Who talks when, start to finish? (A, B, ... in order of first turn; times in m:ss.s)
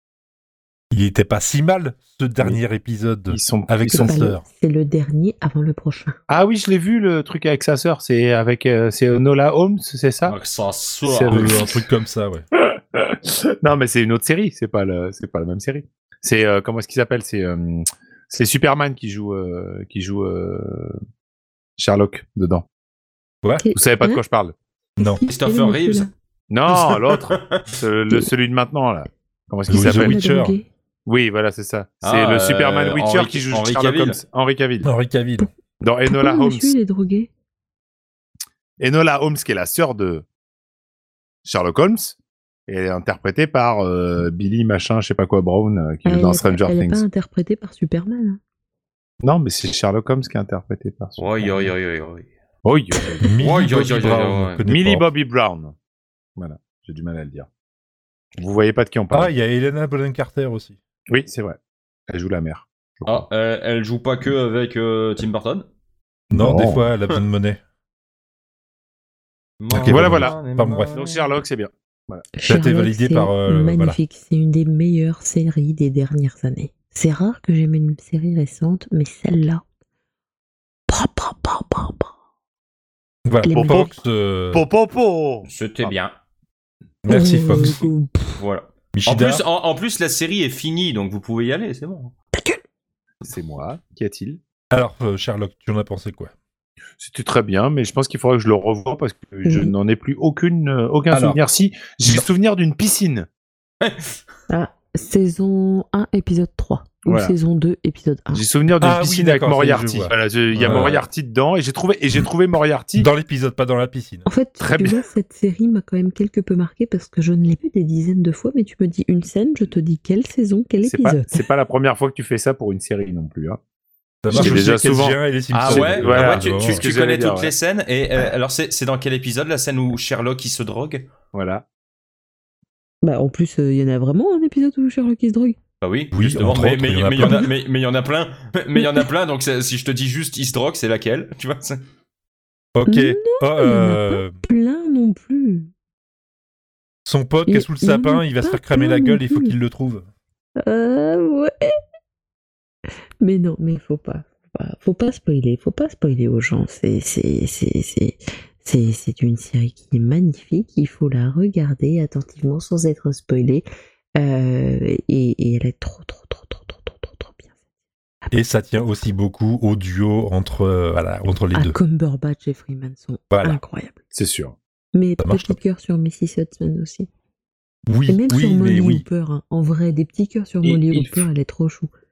0:00.9-0:04.4 A
0:03.3-0:04.2 B
0:04.0-0:06.2 C
0:06.3-0:10.4 B
0:10.2-0:11.6 D
0:11.0-0:11.8 B
0:11.3-0:12.4 A
0:12.6-0:21.0 B
0:21.8-0:22.6 B
0:23.4-0:23.7 A
0:23.6-0:24.2 C
0:23.8-0:24.5 B
0:25.0-0:26.1 C
0:25.0-0:25.2 A
0:25.3-0:26.1 D
0:26.5-0:30.2 B
0:26.7-0:27.7 D
0:29.7-0:30.6 A
0:29.7-0:30.7 C
0:31.1-0:34.9 B
0:32.0-0:34.2 D
0:34.8-0:35.5 A
0:35.8-0:36.8 B
0:36.1-0:37.3 C
0:38.8-0:40.2 B
0:41.4-0:42.2 B
0:42.7-0:47.0 B
0:46.0-0:48.4 C
0:49.2-0:51.8 B
0:51.2-0:52.3 D
0:52.6-0:53.3 B
0:53.2-0:55.1 A
0:53.4-0:54.6 D
0:54.7-0:55.7 B
0:56.4-0:57.5 B
0:58.4-0:59.3 B
0:59.1-1:00.8 A
1:01.1-1:01.6 B
1:02.1-1:03.3 B
1:03.1-1:05.6 D
1:06.3-1:07.6 A
1:06.3-1:06.9 B
1:09.6-1:11.3 D
1:09.7-1:10.9 A
1:09.8-1:10.4 B
1:10.9-1:12.2 B
1:12.4-1:19.6 C
1:12.5-1:14.0 A
1:20.9-1:22.1 C
1:23.2-1:24.6 A
1:23.4-1:23.9 C
1:23.5-1:24.0 B
1:24.5-1:26.0 B
1:25.4-1:26.2 D
1:27.0-1:27.9 A
1:27.1-1:28.4 C
1:28.4-1:32.1 D
1:28.9-1:29.4 A
1:32.3-1:32.6 C
1:33.2-1:34.4 B
1:34.7-1:36.3 A
1:37.0-1:43.3 B
1:39.4-1:39.7 C
1:41.1-1:41.4 A
1:43.8-1:44.2 D
1:44.5-1:48.4 C
1:47.1-1:47.4 B
1:48.3-1:53.1 B
1:48.8-1:51.0 A
1:50.5-1:51.0 D
1:53.0-1:54.2 A
1:54.2-2:01.4 C
1:54.6-1:55.0 B
2:00.8-2:03.6 B
2:04.2-2:06.9 A
2:04.3-2:07.5 B
2:05.6-2:11.1 D
2:11.3-2:11.6 B
2:13.0-2:15.6 C
2:15.8-2:21.8 D
2:16.1-2:17.5 A
2:18.8-2:19.1 C
2:22.8-2:24.4 A
2:22.9-2:25.7 C
2:27.0-2:30.1 A
2:27.4-2:29.6 C
2:30.6-2:31.7 C
2:33.2-2:47.5 C
2:48.3-2:51.8 A
2:51.5-2:54.0 C
2:53.3-2:53.6 A
2:54.1-2:54.6 B
2:54.9-2:57.1 C
2:55.2-2:55.6 A
2:57.9-2:59.0 A
2:58.1-3:01.9 C
3:00.6-3:01.3 B